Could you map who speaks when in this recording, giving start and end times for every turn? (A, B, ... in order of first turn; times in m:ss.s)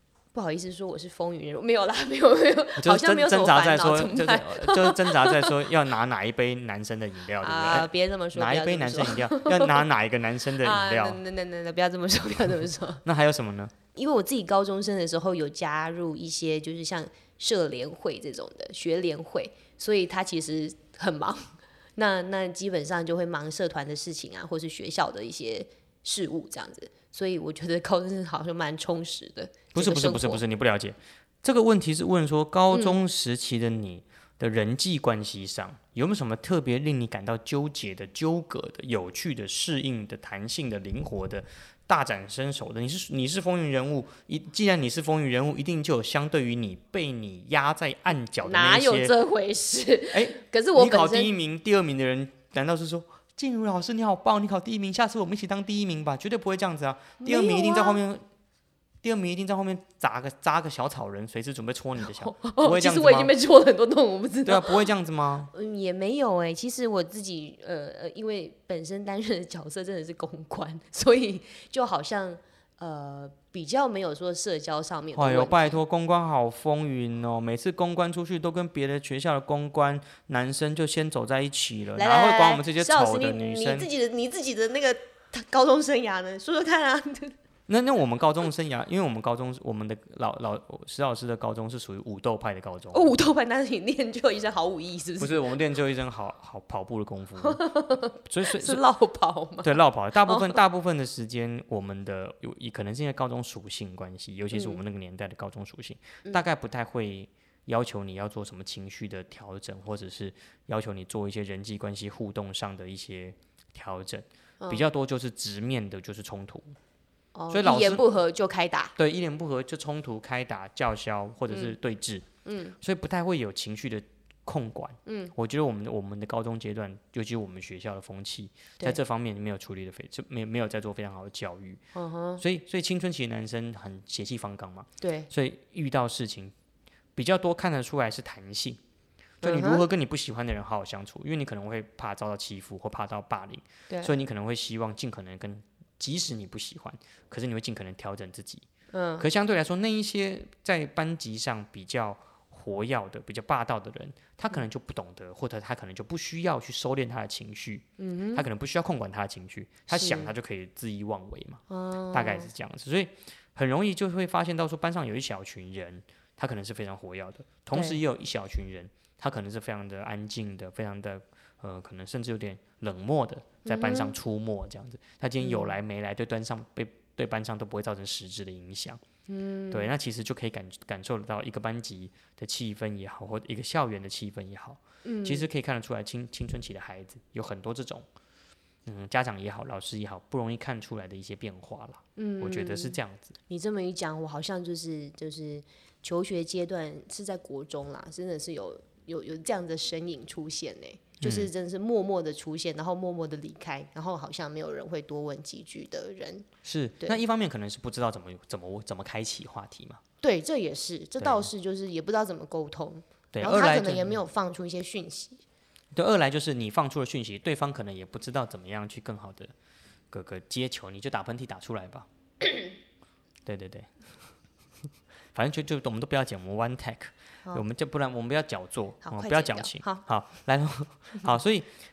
0:00.3-0:05.7 A
0:02.8-0:11.2 B
0:07.4-0:09.8 A
0:10.6-0:13.0 A
0:13.0-0:13.7 B
0:13.9-0:30.4 A
0:29.8-0:49.1 B
0:32.7-0:33.0 A
0:48.4-0:51.3 A
0:50.1-0:58.2 B
0:57.2-0:58.0 A
0:59.0-1:03.3 B
1:02.1-1:04.9 A
1:04.4-1:05.5 B
1:05.5-1:15.8 A
1:15.2-1:23.9 B
1:22.0-1:27.4 A
1:27.7-1:33.1 B
1:32.9-1:35.6 A
1:35.2-1:37.6 B
1:37.4-1:40.6 A
1:38.2-1:38.8 B
1:39.6-1:56.8 B
1:44.5-1:44.8 A
1:57.4-1:58.9 A
1:57.5-1:58.0 B
1:59.0-2:02.2 B
2:01.5-2:01.8 A
2:02.4-2:02.8 A
2:02.8-2:11.8 B
2:05.1-2:05.3 A
2:12.0-2:12.4 A
2:12.4-2:16.5 B
2:15.0-2:15.3 A
2:17.2-2:18.8 B
2:19.4-2:19.8 A
2:19.4-2:28.7 B
2:28.9-2:29.3 A
2:29.2-2:59.0 B
2:38.0-2:38.5 A
2:39.9-2:40.3 A
2:41.7-2:42.5 A
2:47.7-2:48.0 A
2:53.6-2:54.1 A
2:55.4-2:55.8 A
2:59.3-2:59.9 A
2:59.7-3:08.1 B
3:05.0-3:05.5 A
3:08.9-3:13.4 B
3:12.2-3:26.5 A
3:21.2-3:21.5 B
3:26.6-3:30.0 B
3:30.2-3:35.4 A
3:31.2-3:31.5 B
3:33.3-3:34.2 B
3:35.9-3:39.5 B
3:40.1-3:42.1 B
3:43.4-3:43.9 B
3:45.3-3:51.8 B
3:49.0-3:50.0 A